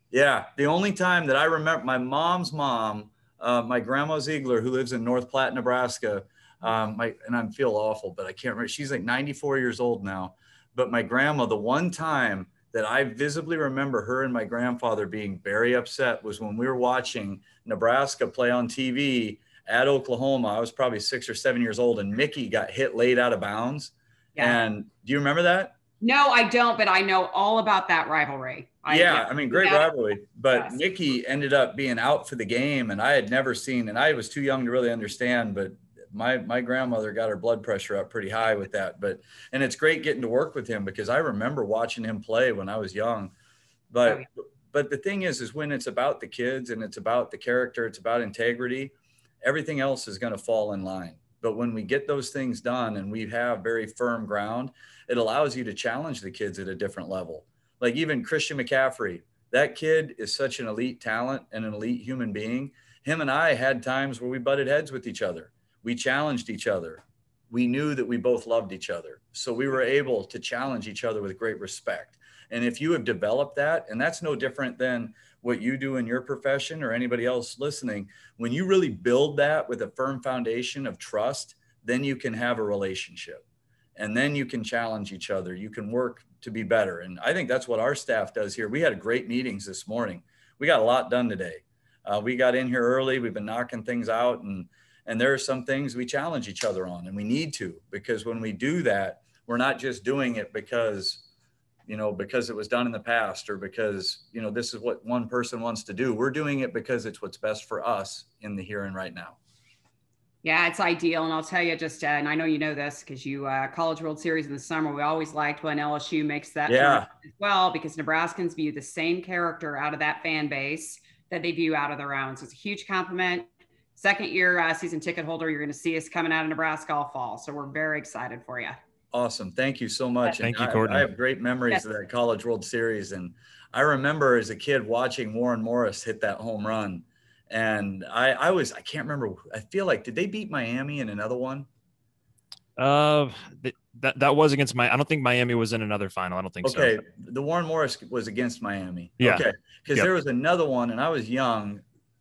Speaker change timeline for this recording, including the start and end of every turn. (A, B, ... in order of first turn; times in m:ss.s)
0:00.1-0:25.8 A
0:24.4-0:24.6 B
0:26.0-0:29.9 B
0:28.9-0:43.3 A
0:30.5-0:30.8 B
0:43.9-1:23.4 A
1:24.0-1:41.2 A
1:41.9-1:49.4 A
1:50.4-2:08.8 B
1:56.7-1:57.1 A
2:09.1-2:21.7 A
2:10.4-2:11.1 C
2:22.8-2:27.0 C
2:26.6-2:31.8 A
2:29.2-2:30.1 C